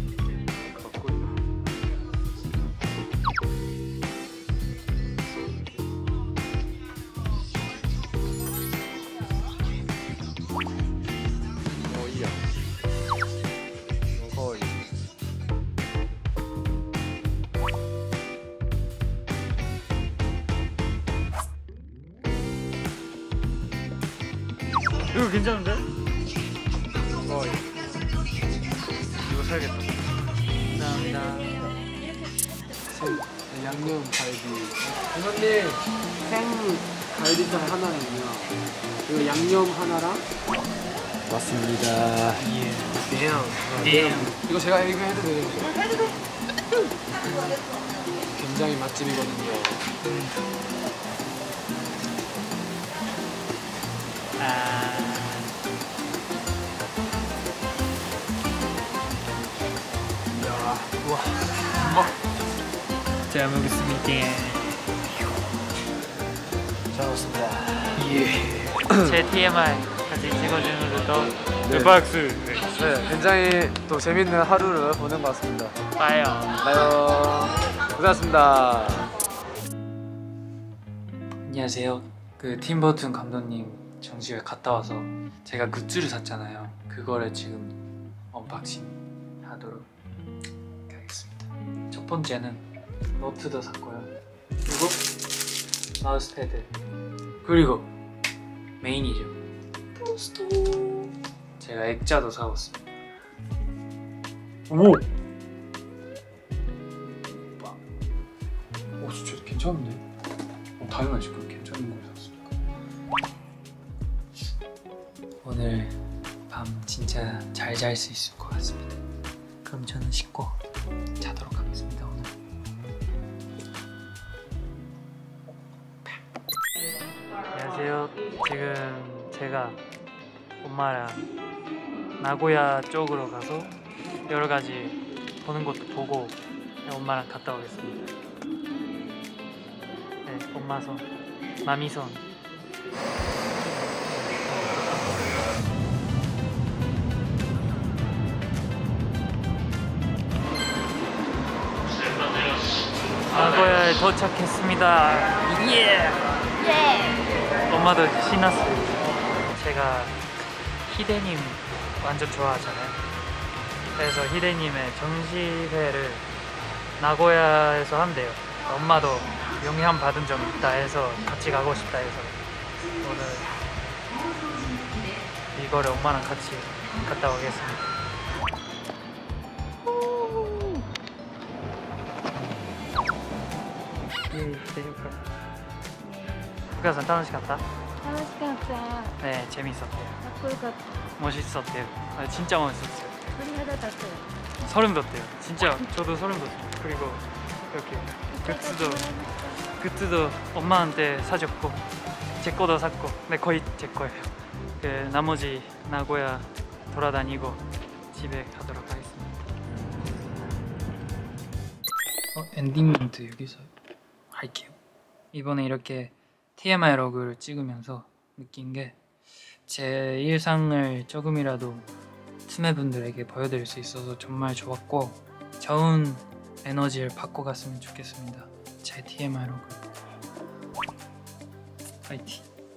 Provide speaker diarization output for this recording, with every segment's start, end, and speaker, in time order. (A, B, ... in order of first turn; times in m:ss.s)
0:00.6-0:01.4 A
0:11.8-0:12.5 A
0:14.1-0:14.9 A
0:25.0-0:25.9 B
0:27.2-0:27.9 A
0:29.2-0:30.0 A
0:30.7-0:31.8 B
0:32.9-0:40.2 A
0:41.3-0:42.4 A
0:42.4-0:43.0 B
0:43.0-0:46.0 A
0:43.8-0:44.4 B
0:48.2-0:49.9 A
0:50.0-0:50.3 B
0:54.4-0:55.5 B
1:00.4-1:01.0 A
1:01.0-1:02.0 B
1:03.3-1:04.8 B
1:06.9-1:08.1 A
1:08.0-1:12.8 B
1:11.6-1:12.0 A
1:12.7-1:15.8 A
1:16.0-1:16.6 B
1:16.6-1:19.1 A
1:21.4-1:27.8 B
1:28.3-1:29.9 B
1:30.9-1:32.6 B
1:33.2-1:34.1 B
1:34.6-1:35.0 B
1:36.0-1:36.7 B
1:37.4-1:37.9 B
1:38.8-1:39.4 B
1:40.0-1:42.9 B
1:44.7-1:45.1 B
1:47.3-1:47.8 B
1:49.0-1:50.0 B
1:50.8-1:52.6 B
1:55.4-1:56.0 B
1:56.5-1:59.0 B
1:59.6-2:00.6 B
2:01.2-2:02.3 B
2:07.5-2:09.8 B
2:10.6-2:11.3 B
2:12.2-2:13.7 B
2:14.3-2:18.0 B
2:20.2-2:21.1 B
2:21.6-2:22.2 B
2:23.6-2:25.0 B
2:33.3-2:36.3 B
2:37.7-2:40.2 B
2:40.8-2:43.0 B
2:44.0-2:46.3 B
2:47.0-2:52.4 B
2:53.0-2:53.5 B
2:55.5-2:57.9 B
3:00.0-3:00.8 B
3:04.3-3:05.2 B
3:06.0-3:06.7 C
3:06.7-3:07.7 B
3:08.0-3:09.1 C
3:09.2-3:10.2 B
3:10.3-3:10.8 C
3:11.2-3:13.2 B
3:13.4-3:14.3 C
3:14.6-3:19.1 B
3:18.5-3:19.6 C
3:19.7-3:21.8 B
3:22.4-3:29.4 B
3:32.3-3:33.7 B
3:34.3-3:34.8 B
3:35.3-3:39.0 B
3:39.6-3:41.9 B
3:42.4-3:49.9 B
3:52.1-3:52.5 B